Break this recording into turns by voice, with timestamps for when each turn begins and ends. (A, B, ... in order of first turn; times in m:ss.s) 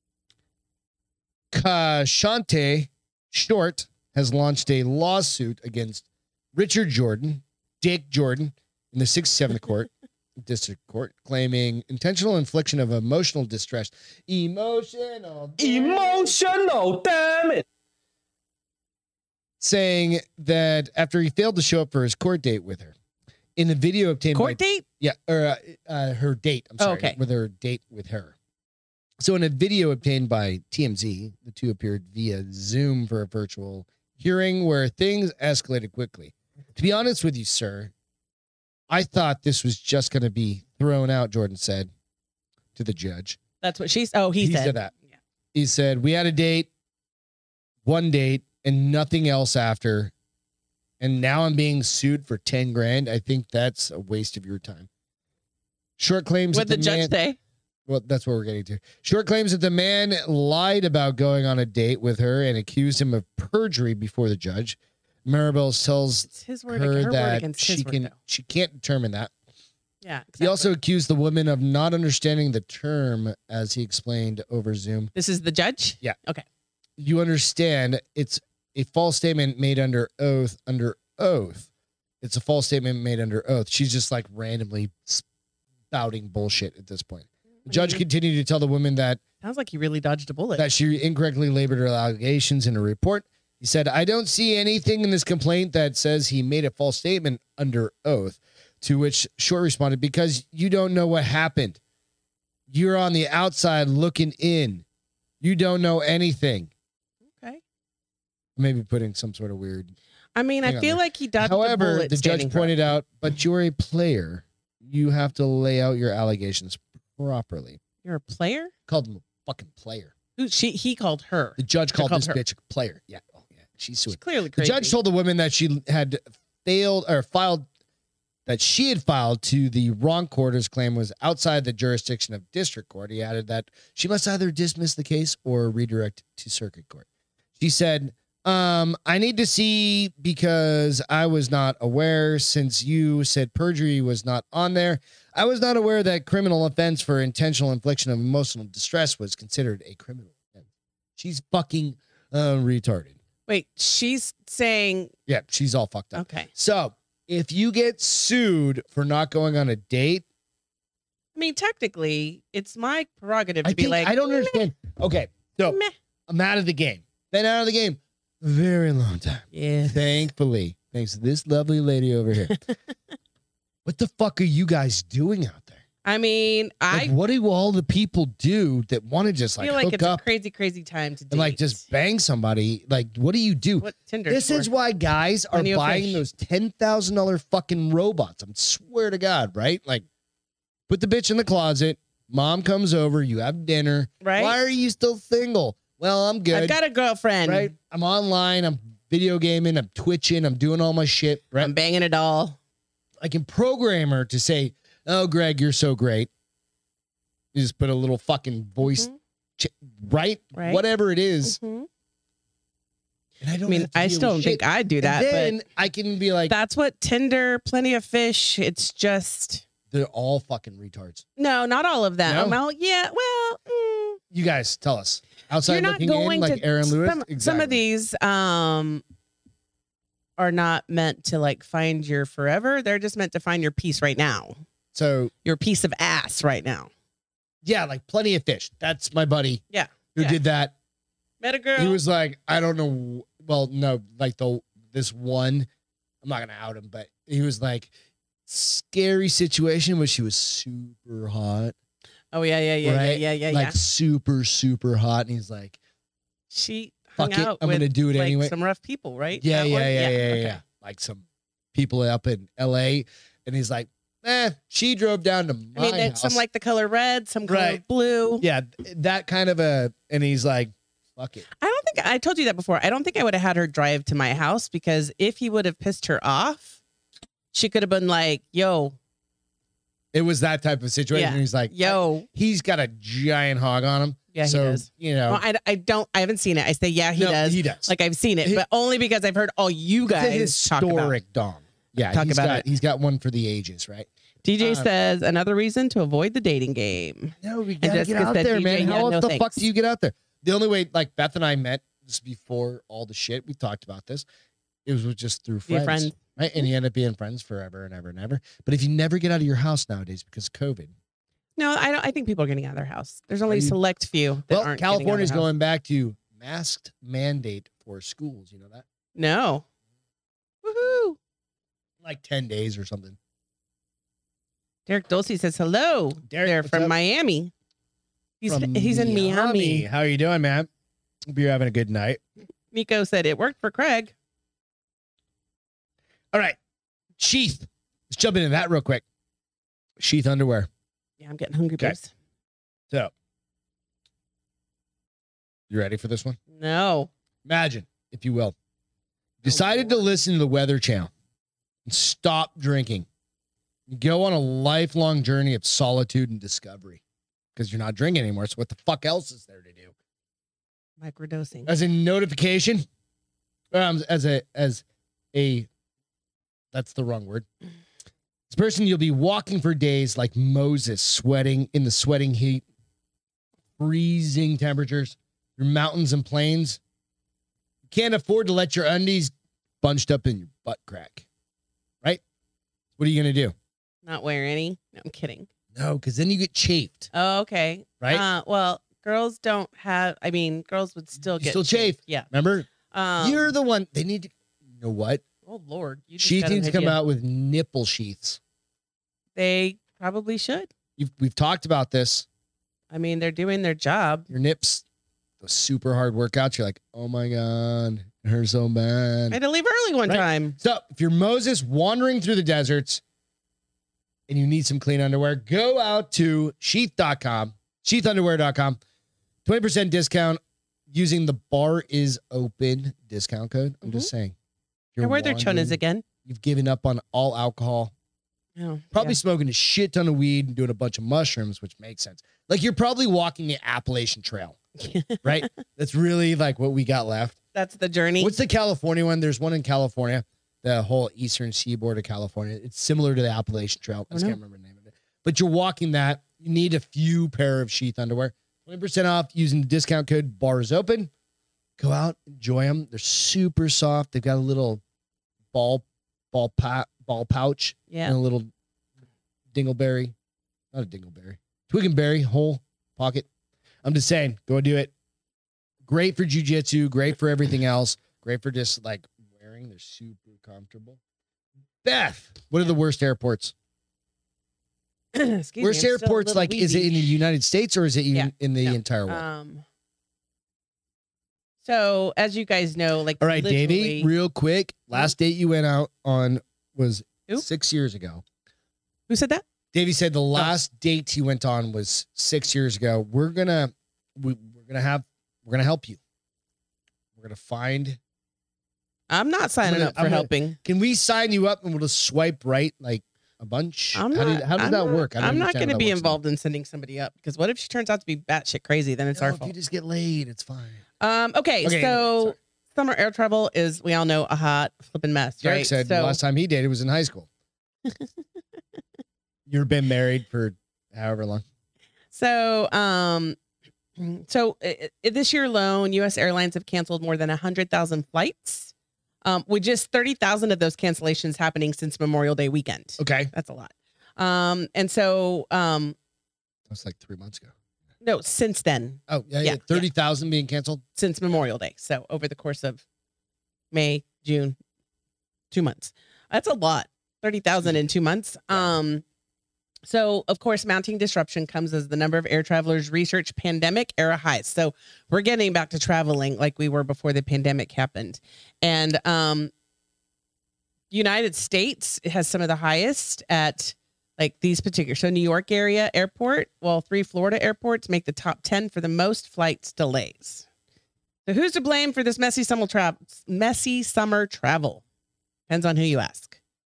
0:01.5-0:09.9 A
0:10.4-0:16.4 A
0:15.6-0:17.6 B
0:19.6-0:22.9 A
0:23.6-0:28.3 A
0:24.3-0:24.8 C
0:26.8-0:27.2 C
0:29.2-0:37.9 A
0:38.9-0:41.9 A
0:42.8-0:43.4 A
0:43.6-0:44.8 C
0:44.4-0:44.9 A
0:45.5-0:46.7 A
0:47.8-0:50.1 A
0:51.0-0:54.9 A
0:56.0-0:57.1 A
0:56.5-0:57.4 C
0:57.9-1:09.3 A
1:06.3-1:08.1 C
1:10.0-1:10.7 C
1:10.4-1:15.1 A
1:15.1-1:16.4 C
1:17.0-1:21.7 A
1:22.2-1:25.2 A
1:25.9-1:29.2 A
1:27.6-1:28.0 C
1:29.4-1:30.7 C
1:30.6-1:41.8 A
1:42.7-1:44.8 A
1:45.4-1:46.7 A
1:48.6-1:49.9 A
1:50.4-1:52.8 C
1:50.6-1:57.8 A
1:58.0-1:58.7 C
1:58.9-2:00.1 A
2:00.4-2:02.4 C
2:01.6-2:07.7 A
2:04.1-2:04.9 C
2:08.4-2:17.1 A
2:17.6-2:30.6 A
2:31.2-2:33.2 A
2:33.5-2:35.1 C
2:35.3-2:40.2 A
2:36.1-2:36.5 C
2:41.3-2:44.6 C
2:43.6-2:52.6 A
2:45.7-2:45.9 C
2:49.5-2:50.3 C
2:53.8-2:55.8 A
2:56.0-2:57.1 C
2:56.9-3:00.2 A
2:59.6-3:01.8 C
3:01.3-3:10.0 A
3:03.8-3:04.7 C
3:05.5-3:06.2 C
3:10.9-3:16.8 A
3:14.2-3:14.6 C
3:16.5-3:17.7 C
3:17.4-3:21.7 A
3:21.6-3:22.6 C
3:23.2-3:26.3 A
3:27.5-3:31.6 A
3:28.8-3:29.2 C
3:30.5-3:30.8 C
3:31.4-3:31.9 C
3:33.4-3:36.5 A
3:33.7-3:35.6 C
3:36.5-3:39.6 C
3:39.9-3:41.2 A
3:41.4-3:44.2 C
3:42.2-3:42.6 A
3:44.3-3:47.8 A
3:45.6-3:49.0 C
3:50.4-3:54.6 C
3:54.9-3:55.3 A
3:55.4-3:56.9 C
3:57.6-3:59.6 A
3:59.7-4:00.4 C
4:00.1-4:00.7 A
4:01.4-4:02.0 C
4:01.8-4:05.7 A
4:06.2-4:07.9 A
4:08.5-4:11.7 A
4:12.3-4:13.8 C
4:12.8-4:15.8 A
4:16.5-4:20.6 C
4:17.2-4:18.5 A
4:19.4-4:26.4 A
4:25.7-4:28.4 C
4:27.4-4:27.8 A
4:28.4-4:31.4 A
4:31.6-4:36.8 C
4:37.5-4:39.0 C
4:40.1-4:45.4 A
4:41.1-4:42.3 C
4:44.3-4:51.2 C
4:47.1-4:47.9 A
4:50.1-4:54.1 A
4:52.1-4:52.6 C
4:54.4-4:59.6 C
4:54.6-4:54.9 A
4:57.4-5:04.2 A
5:04.8-5:10.9 A
5:05.7-5:06.2 C
5:11.6-5:15.5 C
5:13.5-5:13.8 A
5:14.5-5:18.8 A
5:19.2-5:19.6 C
5:20.6-5:21.2 C
5:22.0-5:23.2 A
5:24.9-5:27.5 C
5:26.3-5:26.9 A
5:28.4-5:29.8 C
5:28.5-5:30.7 A
5:31.3-5:32.2 A
5:32.7-5:34.1 C
5:36.3-5:36.6 A
5:37.2-5:39.0 A
5:40.0-5:40.7 A
5:41.2-5:42.1 C
5:45.7-5:46.4 A
5:46.5-5:47.1 C
5:47.4-5:48.5 A
5:49.4-5:51.1 A
5:49.4-5:50.0 C
5:51.8-5:53.0 A
5:53.9-5:57.0 A
5:57.5-5:59.9 A
6:01.0-6:01.7 C
6:01.6-6:02.8 A
6:03.7-6:05.7 A
6:06.7-6:07.4 A
6:08.5-6:12.6 A
6:13.8-6:16.8 A
6:17.9-6:21.2 A
6:23.0-6:23.5 A
6:24.0-6:25.5 C
6:25.7-6:27.1 A
6:27.1-6:32.3 C
6:31.4-6:35.2 A
6:32.9-6:33.5 C
6:35.4-6:37.0 C
6:36.2-6:38.4 A
6:39.4-6:40.7 C
6:41.0-6:42.3 A
6:42.9-6:44.3 C
6:44.3-6:44.8 A
6:45.4-6:49.4 A
6:49.3-6:50.6 C
6:50.1-6:53.0 A
6:54.3-6:58.8 A
6:59.4-7:04.3 A
7:04.9-7:07.9 A
7:05.0-7:06.0 C
7:08.6-7:09.2 C
7:08.9-7:14.6 A
7:14.8-7:15.4 C
7:15.2-7:17.4 A
7:17.5-7:18.3 C
7:18.2-7:31.1 A
7:24.1-7:24.4 C
7:31.8-7:34.8 A
7:35.5-7:38.5 A
7:37.9-7:38.2 C
7:39.5-7:40.1 A
7:40.7-7:43.3 A
7:43.8-7:44.9 A
7:45.8-7:51.0 A
7:51.8-7:53.5 A
7:55.1-7:57.2 C
7:55.6-7:59.2 A
7:58.1-7:59.6 C
8:01.6-8:04.1 C
8:03.2-8:08.2 A
8:09.1-8:09.4 C
8:09.7-8:16.0 A
8:17.2-8:18.0 A
8:19.1-8:20.6 C
8:19.6-8:26.2 A
8:23.9-8:29.5 C
8:29.1-8:30.8 A
8:31.0-8:36.2 C
8:31.6-8:32.4 A
8:35.4-8:37.3 A
8:39.5-8:41.4 A
8:42.1-8:43.4 C
8:44.0-8:48.7 C
8:49.2-8:56.0 C
8:53.0-8:53.3 A
8:56.7-8:57.5 A
8:58.0-8:59.8 C
8:59.1-9:00.8 A
9:01.0-9:02.8 C
9:03.7-9:04.6 C
9:05.5-9:09.0 C
9:09.8-9:19.5 C
9:20.9-9:30.4 C
9:31.2-9:34.8 C
9:35.5-9:36.4 C